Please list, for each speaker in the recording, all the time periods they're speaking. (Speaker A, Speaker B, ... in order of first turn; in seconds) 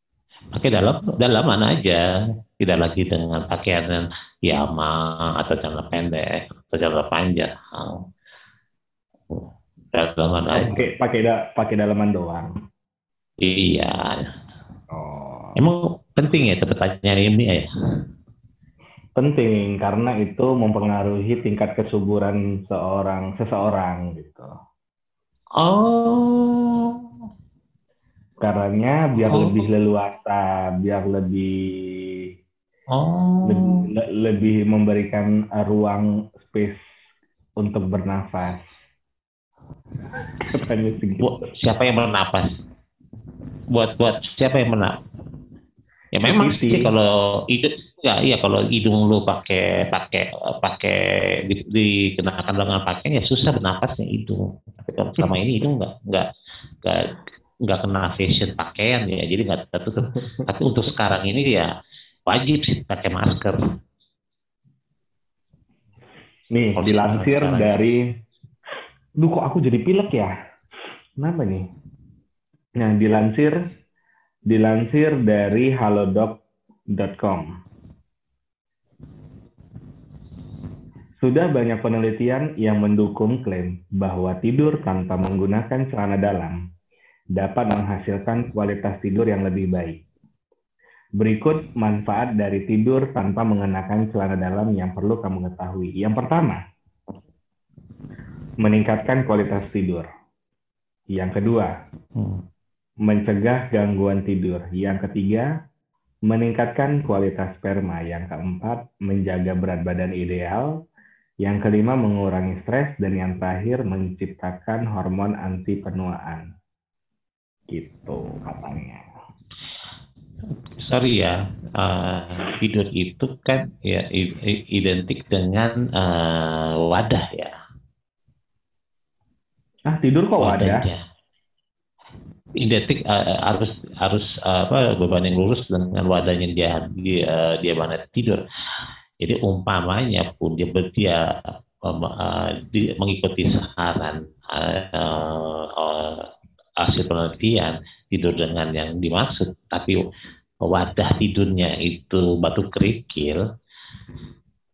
Speaker A: 0.5-2.0, 2.6-8.0, 9.3-10.9, 13.4-14.3, 15.6-17.7, 25.6-27.0, 29.3-29.6, 32.9-33.9, 41.2-42.5, 43.7-45.0, 46.1-56.3, 56.8-57.1, 57.6-61.7, 62.3-63.6, 66.8-67.8, 102.2-102.4, 120.8-127.5, 130.4-131.0, 132.6-138.4, 139.2-141.2, 141.8-146.2, 146.8-150.0, 150.6-153.4
Speaker B: 10.5-12.5, 14.9-15.5, 19.2-24.5, 28.4-32.2, 33.5-36.8, 37.6-38.6, 40.4-41.3, 46.2-46.9, 66.5-68.0, 69.2-70.3, 71.2-71.6, 72.8-73.6, 74.5-76.4, 76.9-77.5, 81.2-86.6, 87.3-90.0, 91.2-96.6, 98.6-100.0, 101.1-101.7, 103.0-105.5, 106.3-110.7, 111.4-116.5, 117.7-119.0, 129.9-130.8